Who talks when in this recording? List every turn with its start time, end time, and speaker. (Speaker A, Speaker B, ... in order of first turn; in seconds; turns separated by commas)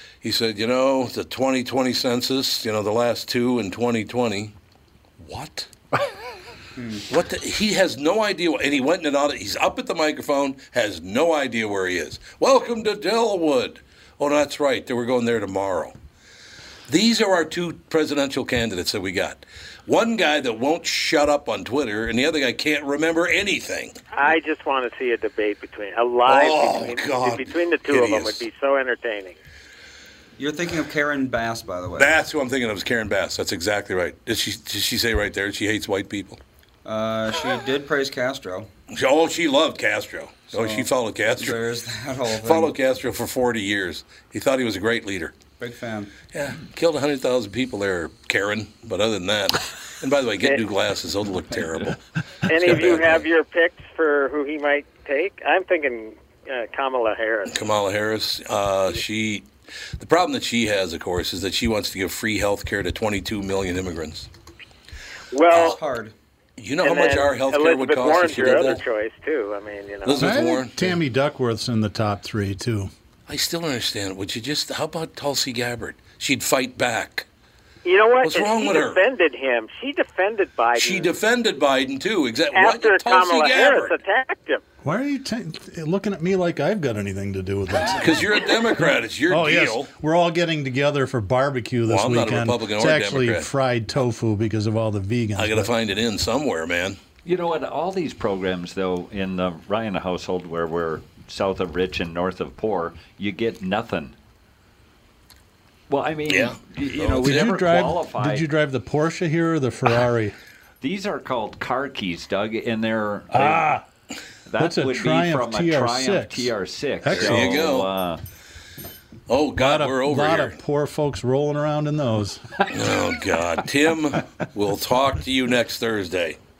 Speaker A: 0.2-4.5, Speaker A: 5.2-5.7, Speaker B: 6.8-7.1, Speaker A: 7.1-16.0, Speaker A: 16.9-24.0, Speaker C: 24.1-29.4, Speaker A: 26.2-28.4, Speaker B: 30.4-32.1, Speaker A: 32.0-36.4, Speaker B: 36.9-38.7, Speaker A: 38.9-41.7, Speaker B: 40.5-42.7, Speaker A: 42.4-45.4, Speaker B: 45.6-46.1, Speaker A: 46.3-53.2, Speaker C: 52.5-57.6, Speaker A: 57.5-64.3, Speaker C: 65.3-65.8, Speaker A: 65.5-65.8, Speaker B: 65.5-66.1, Speaker A: 66.6-68.8, Speaker C: 66.8-70.3, Speaker A: 70.0-71.0, Speaker D: 70.2-72.9, Speaker A: 73.3-77.3, Speaker C: 77.8-81.1, Speaker A: 78.2-79.0, Speaker A: 80.8-84.0, Speaker C: 82.5-84.6, Speaker D: 84.8-95.7, Speaker A: 87.9-89.9, Speaker A: 91.9-93.5, Speaker A: 95.4-97.0, Speaker E: 97.2-104.2, Speaker E: 105.9-108.5, Speaker A: 106.3-107.6, Speaker D: 107.2-110.4, Speaker E: 110.8-113.8, Speaker D: 113.3-113.8, Speaker E: 114.5-118.2, Speaker D: 114.6-117.7, Speaker A: 117.1-117.9, Speaker A: 119.3-120.6, Speaker D: 119.5-122.6, Speaker A: 122.7-126.4